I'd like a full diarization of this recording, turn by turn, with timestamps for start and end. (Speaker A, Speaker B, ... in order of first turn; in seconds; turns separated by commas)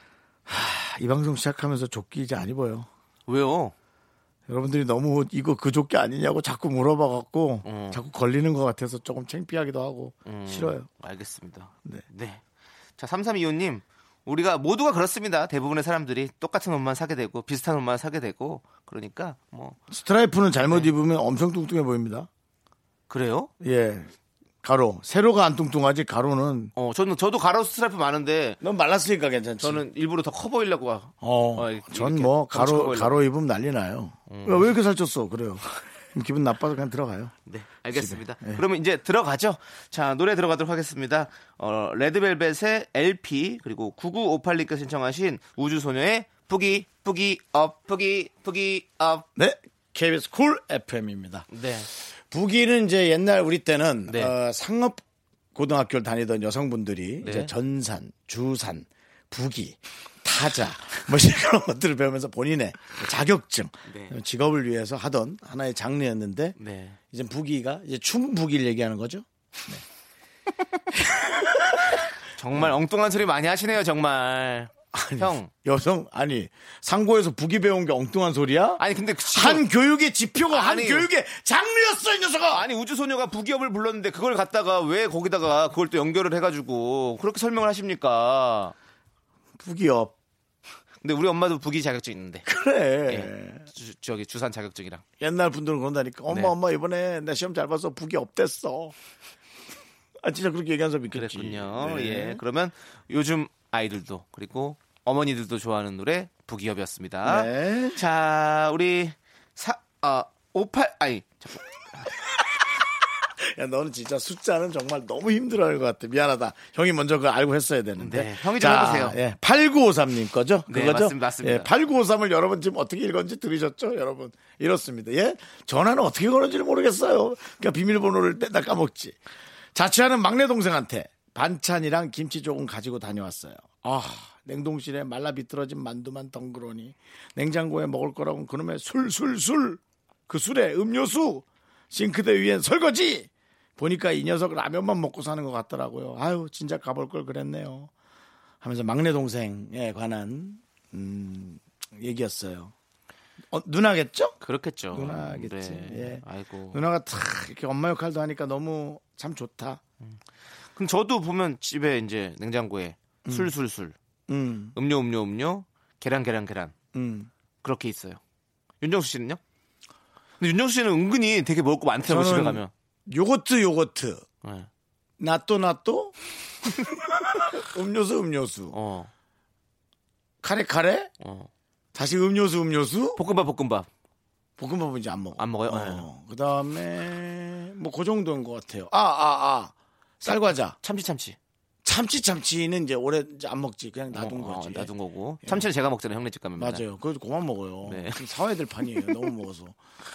Speaker A: 0.5-2.9, Speaker B: 3.3-3.7, Speaker A: 4.5-10.9, Speaker B: 7.6-8.0, Speaker B: 10.3-12.4, Speaker B: 13.0-19.8, Speaker A: 19.9-22.3, Speaker B: 23.1-23.5, Speaker A: 23.6-24.1, Speaker A: 24.6-26.7, Speaker B: 26.8-28.6, Speaker A: 28.6-29.8, Speaker B: 29.6-33.2, Speaker A: 31.2-37.3, Speaker B: 34.3-34.7, Speaker B: 37.5-49.3, Speaker A: 37.9-38.6, Speaker A: 49.4-55.0, Speaker B: 51.5-51.9, Speaker B: 54.1-54.3, Speaker A: 55.5-66.6, Speaker B: 57.2-57.5, Speaker B: 63.9-64.1, Speaker B: 66.6-67.0, Speaker A: 67.1-69.8, Speaker A: 70.9-72.0, Speaker B: 72.4-75.5, Speaker A: 74.9-82.7, Speaker B: 78.8-79.6, Speaker B: 80.5-81.1, Speaker B: 82.5-88.7, Speaker A: 89.6-90.1, Speaker B: 91.0-92.5, Speaker A: 92.5-93.7, Speaker B: 93.1-95.0, Speaker A: 95.2-99.0, Speaker B: 96.3-96.5, Speaker A: 100.2-102.4, Speaker B: 101.1-112.1, Speaker A: 107.2-108.0, Speaker A: 113.3-129.2, Speaker B: 118.0-119.2, Speaker B: 120.7-121.7, Speaker A: 129.7-147.9, Speaker A: 148.6-152.7, Speaker A: 153.5-154.4, Speaker B: 154.4-156.8, Speaker A: 154.9-159.8, Speaker B: 160.8-163.9, Speaker A: 163.3-163.5, Speaker A: 164.3-164.8, Speaker B: 164.7-166.7, Speaker A: 166.9-167.3, Speaker B: 167.6-168.2, Speaker B: 168.8-169.4, Speaker B: 170.4-172.7, Speaker A: 172.1-174.2, Speaker B: 174.4-174.7, Speaker A: 175.2-178.8, Speaker B: 178.7-179.1, Speaker A: 180.4-181.1, Speaker B: 181.2-181.5, Speaker A: 181.9-183.2, Speaker B: 183.2-183.9, Speaker A: 184.6-190.8, Speaker B: 185.4-186.1, Speaker B: 190.3-191.4, Speaker A: 191.8-194.9, Speaker B: 194.1-196.8, Speaker A: 196.6-199.8, Speaker B: 197.8-198.3